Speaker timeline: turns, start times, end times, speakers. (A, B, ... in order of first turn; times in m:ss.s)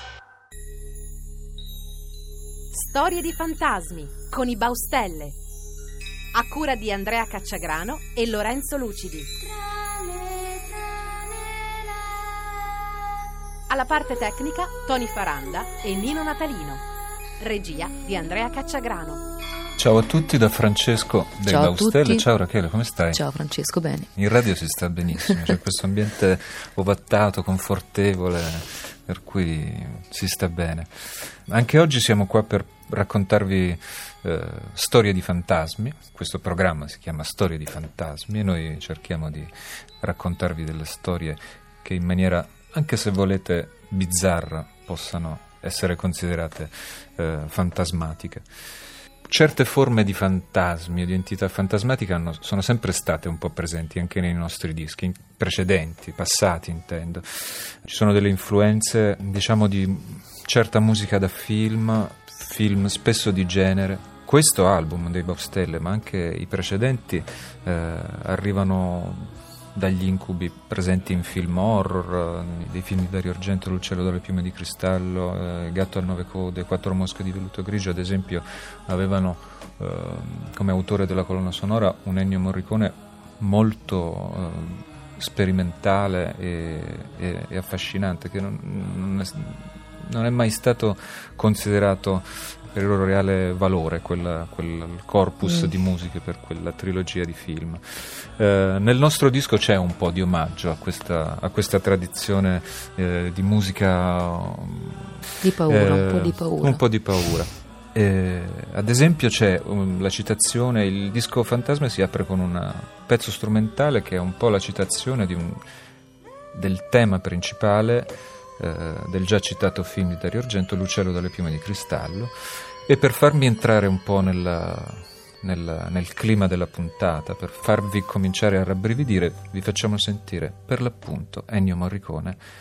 0:02.7-0:05.4 A
0:06.3-0:09.3 A
0:13.7-0:16.8 A
0:17.4-0:19.2 A
0:19.8-0:23.2 B
0:21.4-0:22.3 C
0:23.1-0:24.1 C
0:24.2-0:30.9 B
0:31.5-0:48.5 B
0:49.3-1:55.6 B
1:45.4-1:46.8 C
1:56.5-2:02.3 B
2:02.9-2:12.4 B